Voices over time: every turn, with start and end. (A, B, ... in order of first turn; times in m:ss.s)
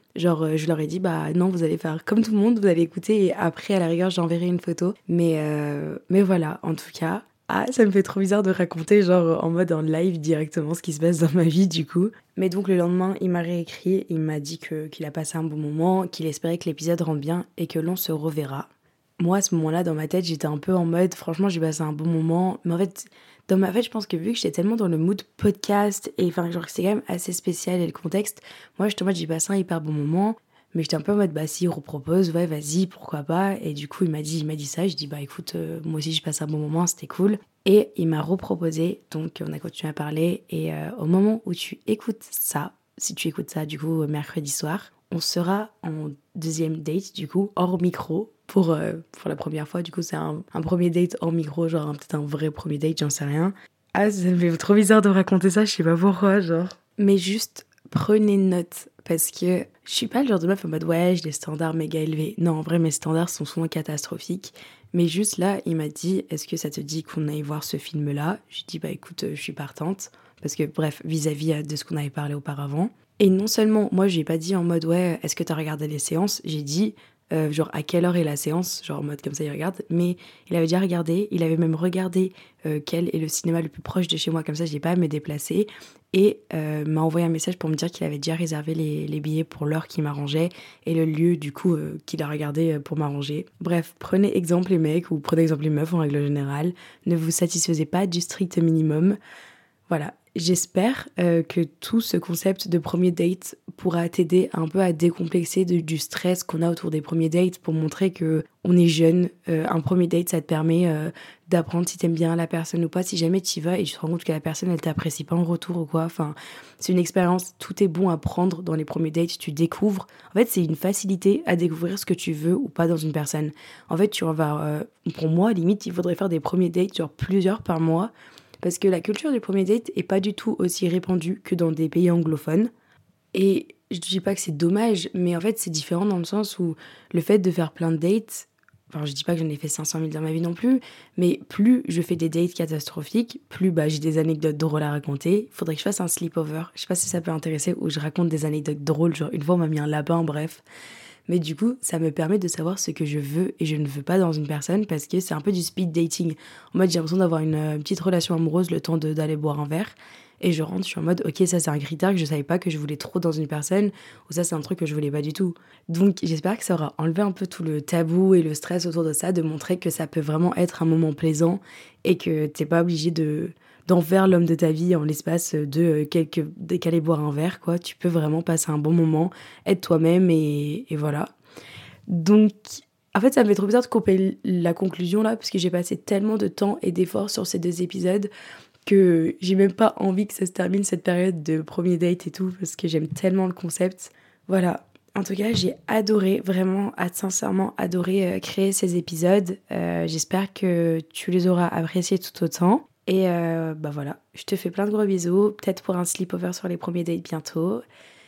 0:00.2-1:39.2 A
1:39.9-2:08.1 A
2:08.6-2:12.7 A
2:13.3-2:30.6 A
2:31.3-3:01.3 A
3:02.1-3:08.3 A
3:08.8-3:27.8 A